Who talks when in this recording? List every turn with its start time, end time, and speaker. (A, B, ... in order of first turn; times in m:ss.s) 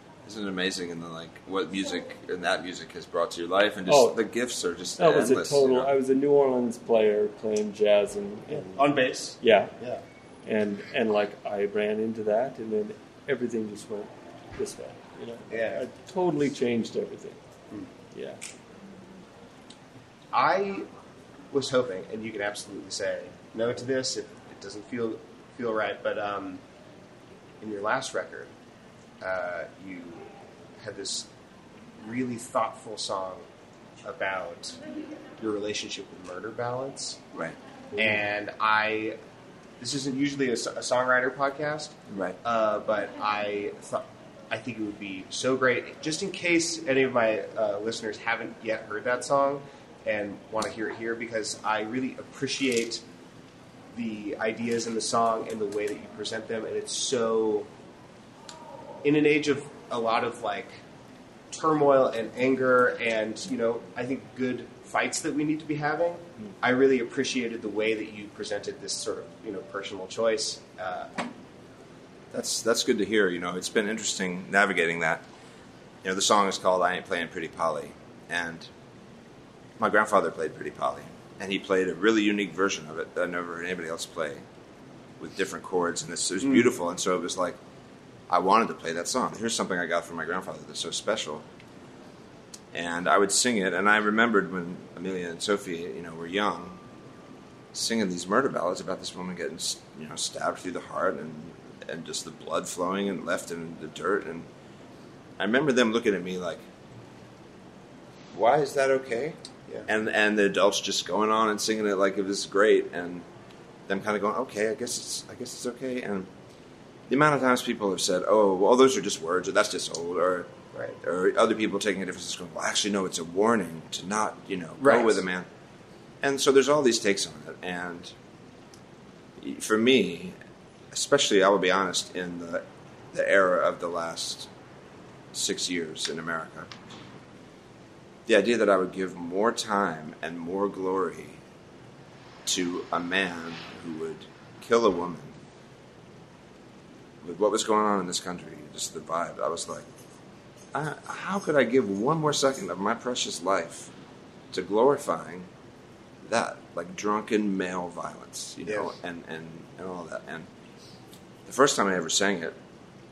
0:00.2-0:05.9 A
0:03.9-0:04.2 B
0:05.0-0:09.7 B
0:08.5-0:10.0 C
0:10.4-0:17.4 B
0:15.5-0:15.8 C
0:18.1-0:18.4 B
0:20.3-0:20.9 C
0:21.5-0:26.6 C
0:27.6-0:28.5 C
0:29.2-0:30.3 C
0:30.8-0:31.3 C
0:32.0-0:33.4 C
0:34.0-0:34.8 C
0:35.4-0:37.2 C
0:38.0-0:39.2 C
0:39.8-0:53.0 C
0:42.1-0:42.4 A
0:53.9-0:57.7 C
0:59.0-1:00.8 C
1:01.5-1:11.1 C
1:12.3-1:15.3 A
1:16.0-1:18.7 A
1:19.8-1:24.4 A
1:25.2-1:27.6 A
1:28.3-1:31.5 A
1:32.7-1:36.8 A
1:37.7-1:44.5 A
1:45.4-1:46.7 A
1:48.3-1:53.3 A
1:53.9-1:56.3 A
1:57.1-2:05.5 A
2:04.8-2:05.2 C
2:06.2-2:08.2 A
2:09.4-2:10.4 A
2:10.9-2:14.5 A
2:15.3-2:16.7 A
2:18.3-2:21.4 A
2:22.5-2:25.4 A
2:27.2-2:29.9 A
2:30.7-2:33.9 A
2:34.5-2:35.5 A
2:36.2-2:40.5 A
2:41.5-2:42.6 A